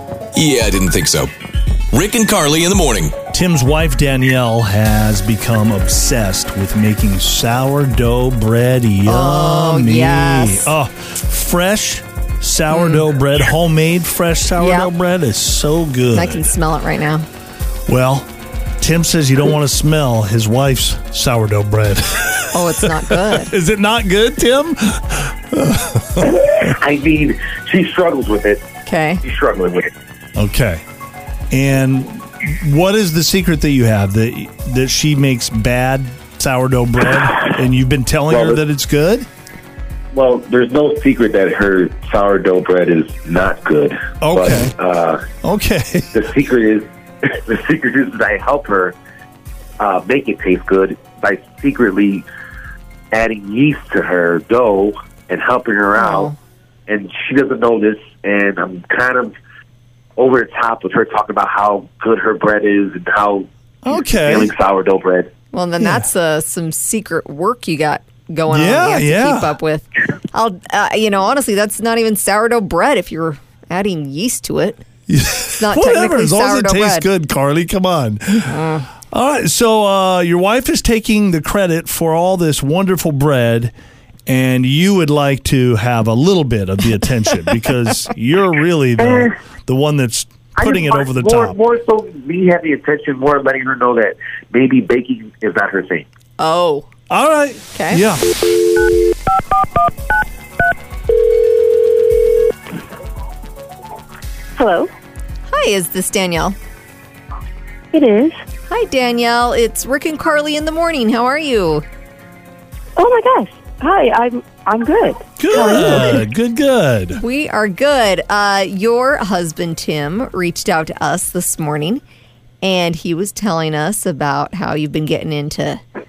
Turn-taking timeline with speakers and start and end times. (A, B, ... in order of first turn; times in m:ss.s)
0:00.4-0:01.3 A
0:01.9-0:03.2 A
0:03.3-0:16.5 B
0:09.0-0:10.7 C
0:12.7-0:13.0 C
0:14.6-0:14.9 C
0:16.1-0:17.2 C
0:17.9-0:18.3 B
0:18.8-0:26.4 B
0:22.5-0:23.5 C
0:26.2-0:28.7 D
0:28.8-0:29.2 C
0:29.2-0:29.9 D
0:30.4-0:30.8 B
0:31.5-0:39.3 B
0:38.3-0:38.6 D
0:40.1-0:45.2 D
0:44.2-0:44.7 B
0:45.4-0:46.1 B
0:46.1-0:49.0 D
0:49.8-0:52.2 D
0:53.1-0:56.3 D
0:56.0-0:56.4 C
0:56.9-0:59.3 D
1:00.2-1:05.3 D
1:03.8-1:04.5 B
1:05.5-1:14.8 C
1:05.8-1:06.1 B
1:08.5-1:09.6 B
1:15.1-1:23.7 B
1:15.6-1:17.1 C
1:18.5-1:18.9 C
1:24.3-1:31.6 B
1:29.0-1:29.3 D
1:30.6-1:36.0 D
1:36.4-1:36.9 C
1:37.1-1:38.4 B
1:37.7-1:38.0 C
1:44.6-1:44.9 E
1:45.5-1:46.6 C
1:47.9-1:48.4 E
1:48.7-1:51.8 C
1:53.0-1:56.3 E
1:55.4-1:57.2 B
1:55.5-1:56.1 C
1:57.2-2:02.0 C
2:02.6-2:05.8 C